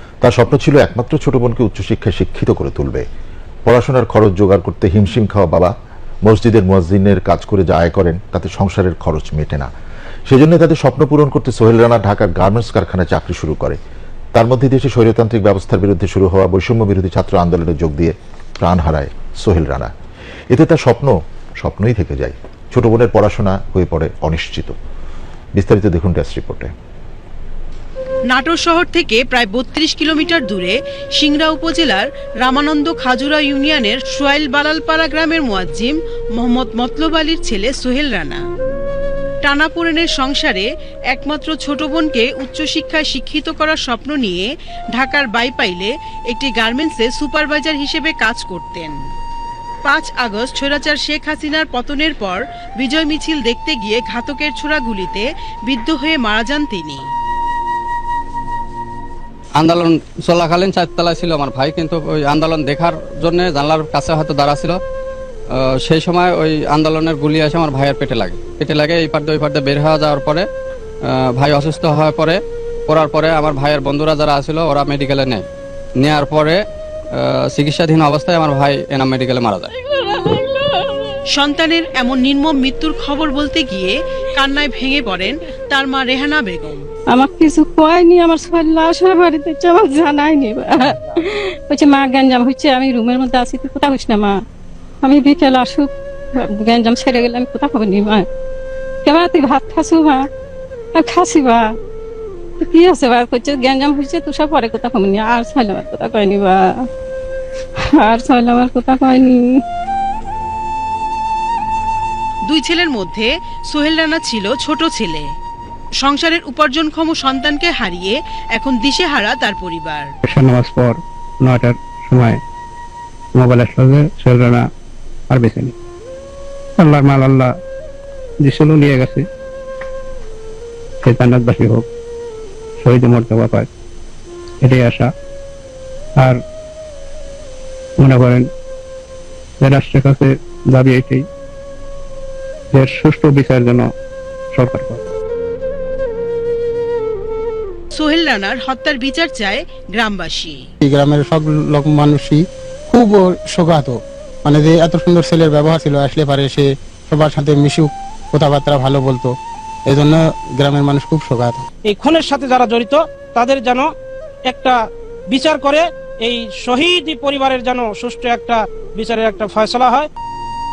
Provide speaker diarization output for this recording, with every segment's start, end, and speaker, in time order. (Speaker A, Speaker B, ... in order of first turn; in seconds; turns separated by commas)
Speaker A: 0.2-3.0, Speaker A: 3.7-5.7, Speaker A: 6.2-9.7, Speaker A: 10.3-13.8, Speaker A: 14.3-19.9, Speaker A: 20.5-24.7, Speaker A: 25.6-26.7, Speaker B: 28.3-38.4, Speaker B: 39.4-49.0, Speaker B: 49.9-57.0, Speaker C: 59.6-64.8, Speaker C: 65.8-70.5, Speaker C: 71.1-75.4, Speaker C: 76.0-76.6, Speaker C: 77.5-79.7, Speaker D: 79.9-81.1, Speaker B: 81.3-86.8, Speaker D: 87.1-94.3, Speaker D: 95.0-95.9, Speaker D: 96.4-98.3, Speaker D: 99.1-100.2, Speaker D: 101.0-101.6, Speaker D: 102.6-106.6, Speaker D: 108.0-109.4, Speaker B: 112.5-115.3, Speaker B: 116.0-120.1, Speaker E: 120.2-122.4, Speaker E: 123.4-124.6, Speaker E: 125.3-125.7, Speaker E: 126.8-127.5, Speaker E: 128.4-129.2, Speaker E: 131.0-131.9, Speaker E: 132.8-133.7, Speaker E: 134.6-135.1, Speaker E: 138.0-138.5, Speaker E: 139.6-141.3, Speaker E: 142.7-143.9, Speaker E: 144.5-145.0, Speaker B: 147.9-150.6, Speaker F: 150.8-159.3, Speaker F: 159.9-161.6, Speaker G: 161.9-163.9, Speaker G: 164.5-164.8, Speaker G: 165.3-170.1